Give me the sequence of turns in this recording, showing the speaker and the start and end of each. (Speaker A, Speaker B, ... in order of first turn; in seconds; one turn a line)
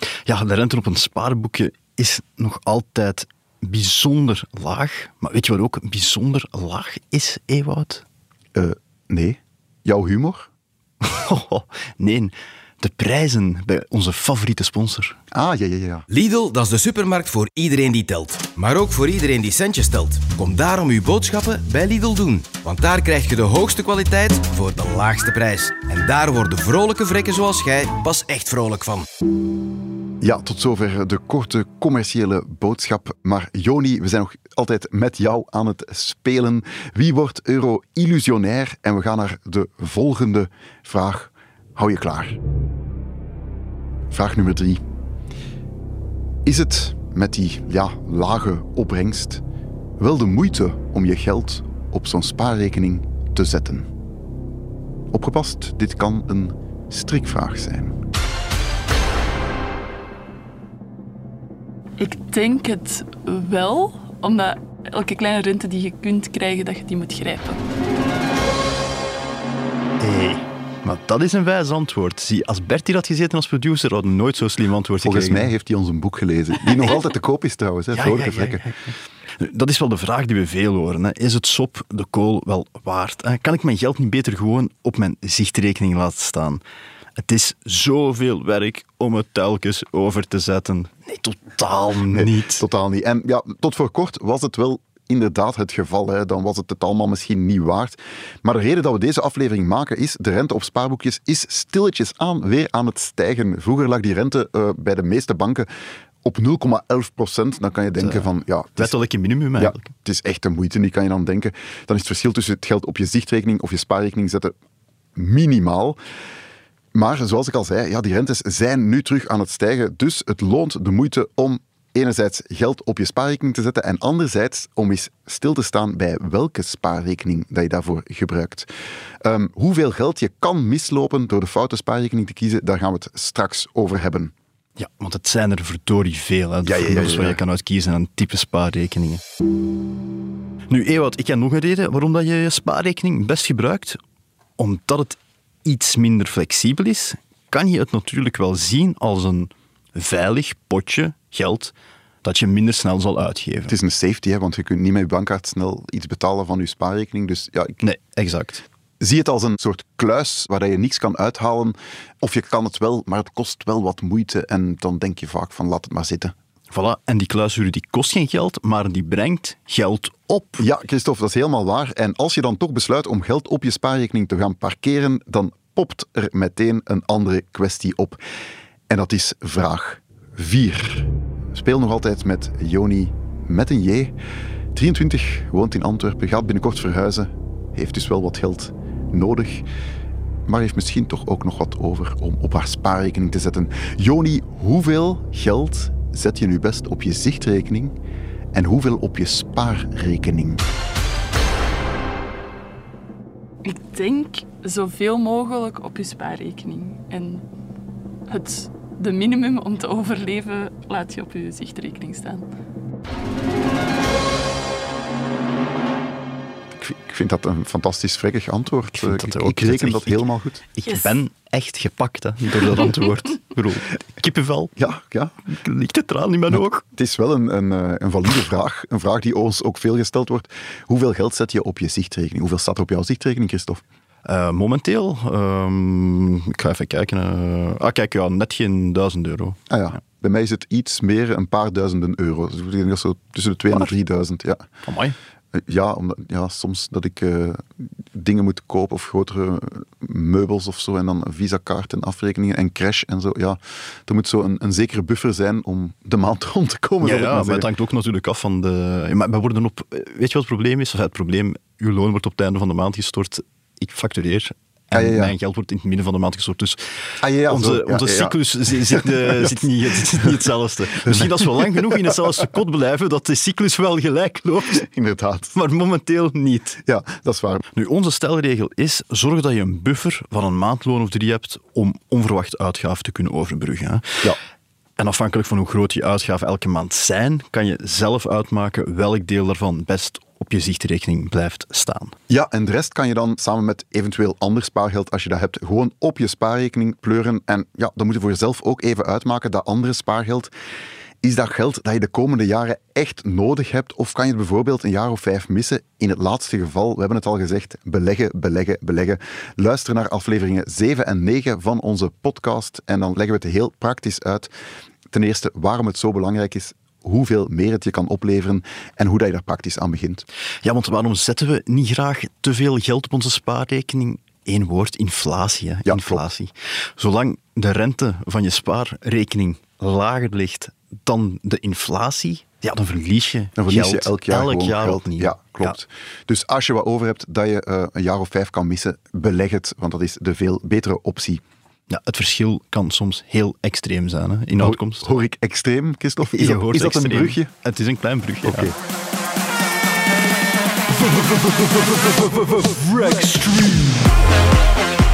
Speaker A: 0.2-8.0
Speaker B: 8.5-10.5
Speaker A: 11.0-15.2
Speaker B: 15.3-16.0
Speaker C: 16.1-29.1
Speaker B: 30.2-42.4
Speaker B: 44.1-44.8
Speaker B: 46.4-49.4
Speaker B: 50.0-53.9
Speaker B: 55.1-58.0
Speaker D: 62.0-67.6
Speaker A: 70.0-75.5
Speaker B: 75.0-78.6
Speaker A: 77.9-86.6
Speaker A: 87.2-92.6
Speaker B: 92.1-105.7
Speaker B: 106.2-108.9
Speaker A: 108.0-109.9
Speaker B: 109.6-114.5
Speaker B: 115.2-116.0
Speaker B: 116.9-128.7
Speaker B: 129.2-134.3
Speaker A: 134.8-139.2
Speaker B: 136.6-137.4
Speaker A: 140.7-144.0
Speaker A: 144.6-151.7
Speaker A: 152.2-153.7
Speaker B: 153.7-157.8
Speaker A: 157.8-158.6
Speaker B: 159.0-166.3
Speaker A: 166.7-170.7
Speaker B: 170.6-178.2
Speaker B: 178.9-184.1
Speaker B: 184.7-189.7
Speaker B: 190.4-197.9
Speaker B: 198.5-200.6
Speaker D: 203.6-207.4
Speaker D: 208.3-212.5
Speaker B: 216.8-220.6
Speaker A: 218.9-224.7
Speaker D: 220.9-221.2
Speaker B: 224.8-225.3
Speaker A: 225.4-226.8
Speaker B: 226.5-233.8
Speaker A: 234.2-239.6
Speaker B: 239.7-244.7
Speaker A: 244.8-245.2
Speaker B: 245.5-257.7
Speaker A: 257.0-266.8
Speaker B: 264.9-265.3
Speaker B: 267.2-272.4
Speaker A: 267.4-274.8
Speaker B: 274.7-275.6
Speaker A: 275.5-276.8
Speaker B: 276.8-277.6
Speaker A: 277.7-284.2
Speaker A: 285.0-292.1
Speaker B: 292.3-300.5
Speaker B: 301.2-314.5
Speaker B: 315.1-320.2
Speaker A: 320.6-335.8
Speaker B: 325.8-326.2
Speaker B: 333.6-341.4
Speaker A: 341.9-345.1
Speaker B: 344.6-347.5
Speaker A: 346.3-348.7
Speaker B: 348.4-348.7
Speaker A: 351.0-353.9